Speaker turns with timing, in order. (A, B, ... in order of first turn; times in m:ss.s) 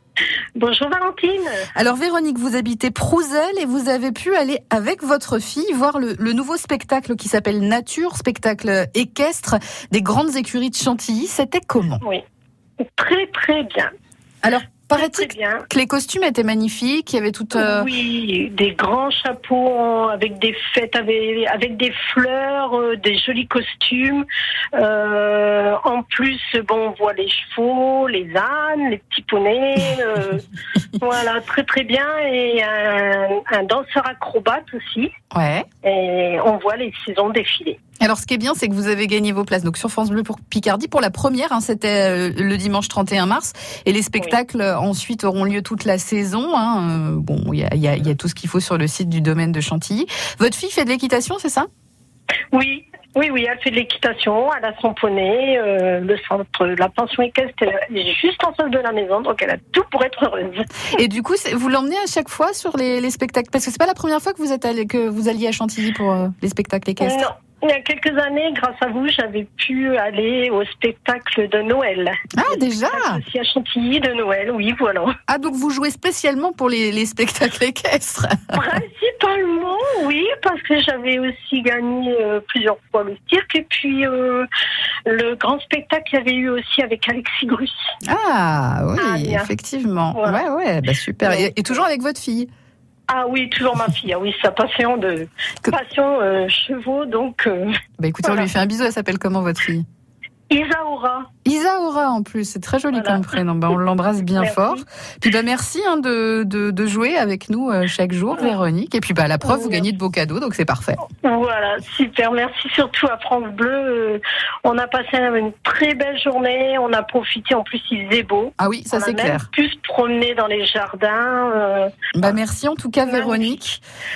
0:00.6-0:01.7 A
0:01.7-0:12.0 B
0:12.8-0:13.9 A
0:14.4-0:17.9 B
0:14.9-0:15.6 A
0:17.5-0:24.2 A
0:24.7-0:30.4 A
0:31.0-0:35.1 A
0:35.3-0:35.6 B
0:35.8-0:37.8 A
0:38.0-0:51.7 B
0:52.5-1:00.7 A
1:00.9-1:07.3 B
1:07.0-1:15.1 A
1:12.3-1:13.2 B
1:15.3-1:18.6 B
1:18.5-1:24.5 A
1:25.0-1:27.9 A
1:28.0-1:32.5 B
1:29.0-1:29.5 A
1:30.1-1:30.4 A
1:31.2-1:31.8 A
1:33.1-1:37.7 A
1:38.0-1:39.8 B
1:38.2-1:38.5 A
1:40.5-1:41.3 A
1:41.4-1:51.0 B
1:42.9-1:43.3 A
1:44.4-1:44.8 A
1:49.4-1:49.9 A
1:51.2-2:02.4 A
1:58.6-1:59.5 B
2:02.1-2:03.8 B
2:03.0-2:03.6 A